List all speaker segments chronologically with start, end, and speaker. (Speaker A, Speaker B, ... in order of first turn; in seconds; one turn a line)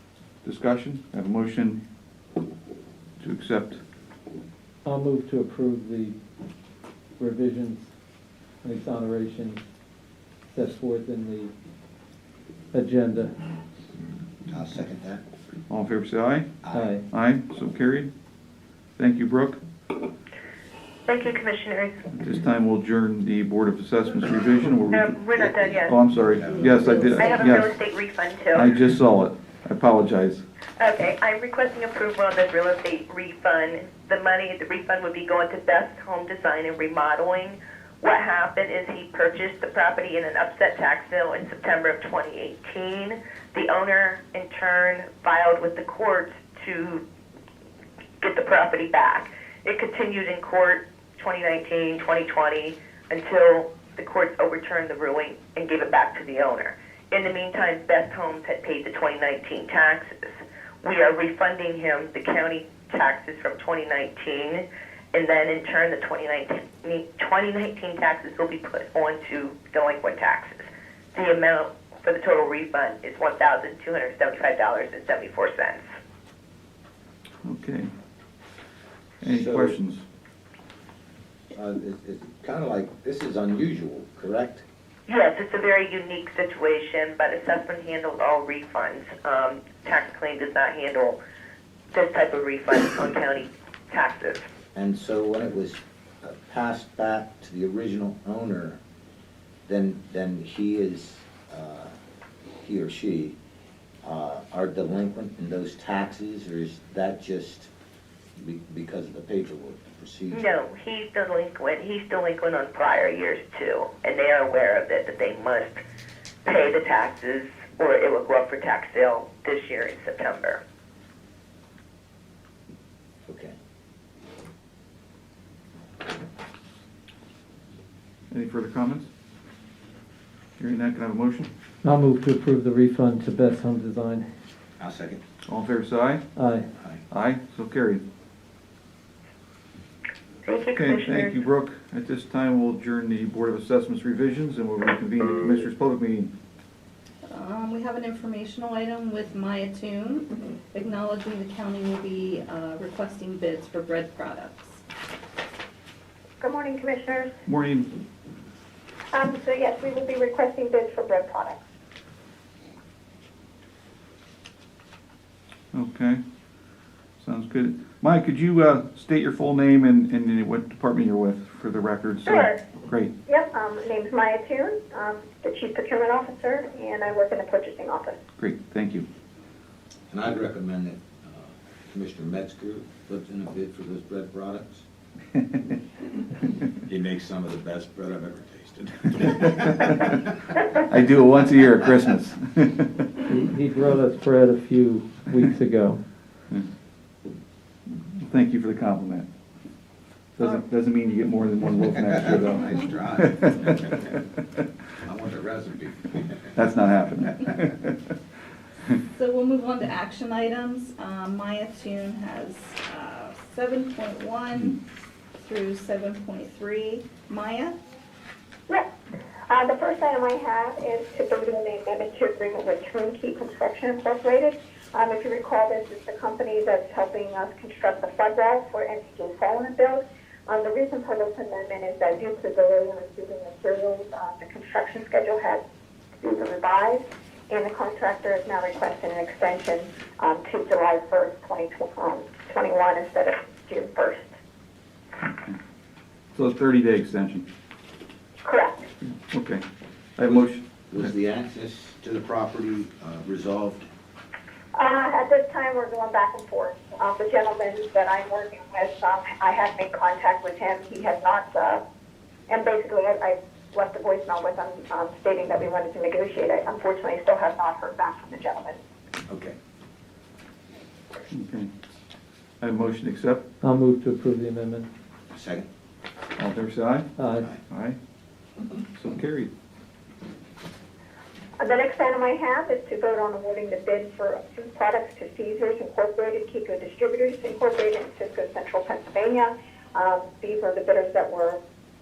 Speaker A: 0.4-1.8
Speaker A: 3.2-3.8
Speaker B: 4.8-6.2
Speaker B: 7.2-7.9
Speaker B: 8.6-9.6
Speaker B: 10.5-11.5
Speaker B: 12.7-13.4
Speaker C: 14.5-15.2
Speaker A: 15.7-18.1
Speaker C: 16.6-16.9
Speaker B: 16.7-17.1
Speaker A: 19.0-19.6
Speaker D: 21.1-22.0
Speaker A: 22.1-25.1
Speaker D: 24.9-26.0
Speaker C: 25.5-27.2
Speaker A: 25.9-27.7
Speaker D: 27.2-28.7
Speaker A: 28.5-30.4
Speaker D: 30.8-47.0
Speaker D: 48.2-75.9
Speaker A: 77.4-77.9
Speaker A: 79.2-80.0
Speaker C: 79.2-79.8
Speaker C: 81.5-84.6
Speaker D: 85.1-91.2
Speaker D: 91.9-94.5
Speaker C: 94.7-98.8
Speaker C: 99.7-102.0
Speaker C: 102.6-103.4
Speaker C: 104.0-107.7
Speaker C: 108.4-110.4
Speaker D: 110.3-115.8
Speaker D: 116.5-120.6
Speaker C: 123.2-123.5
Speaker A: 128.3-129.1
Speaker A: 130.6-131.5
Speaker B: 131.8-134.3
Speaker C: 134.8-135.2
Speaker A: 135.5-136.2
Speaker B: 136.3-136.7
Speaker A: 137.1-138.0
Speaker D: 140.4-141.4
Speaker A: 140.8-146.3
Speaker E: 147.3-154.8
Speaker F: 156.4-157.3
Speaker A: 157.5-158.0
Speaker F: 159.1-161.6
Speaker A: 165.7-166.2
Speaker A: 167.2-173.1
Speaker F: 172.3-172.6
Speaker F: 173.3-178.2
Speaker A: 178.4-179.1
Speaker C: 180.1-184.8
Speaker C: 186.9-190.2
Speaker A: 190.8-193.1
Speaker B: 193.3-196.0
Speaker A: 198.1-199.3
Speaker A: 200.4-203.8
Speaker C: 201.9-204.1
Speaker C: 205.0-206.5
Speaker A: 206.6-208.0
Speaker E: 209.1-214.8
Speaker E: 215.4-217.8
Speaker F: 219.5-235.6
Speaker F: 236.2-244.3
Speaker A: 245.2-245.6
Speaker A: 246.3-247.4
Speaker F: 248.4-248.9
Speaker A: 249.0-249.6
Speaker A: 250.2-251.1
Speaker C: 250.2-253.9
Speaker F: 254.8-261.8
Speaker F: 262.5-268.8
Speaker C: 269.3-269.6
Speaker A: 271.3-271.7
Speaker A: 272.6-273.4
Speaker B: 273.6-274.9
Speaker C: 275.3-275.7
Speaker A: 276.4-277.1
Speaker B: 277.2-277.5
Speaker A: 277.6-278.0
Speaker A: 278.9-279.5
Speaker F: 281.6-291.6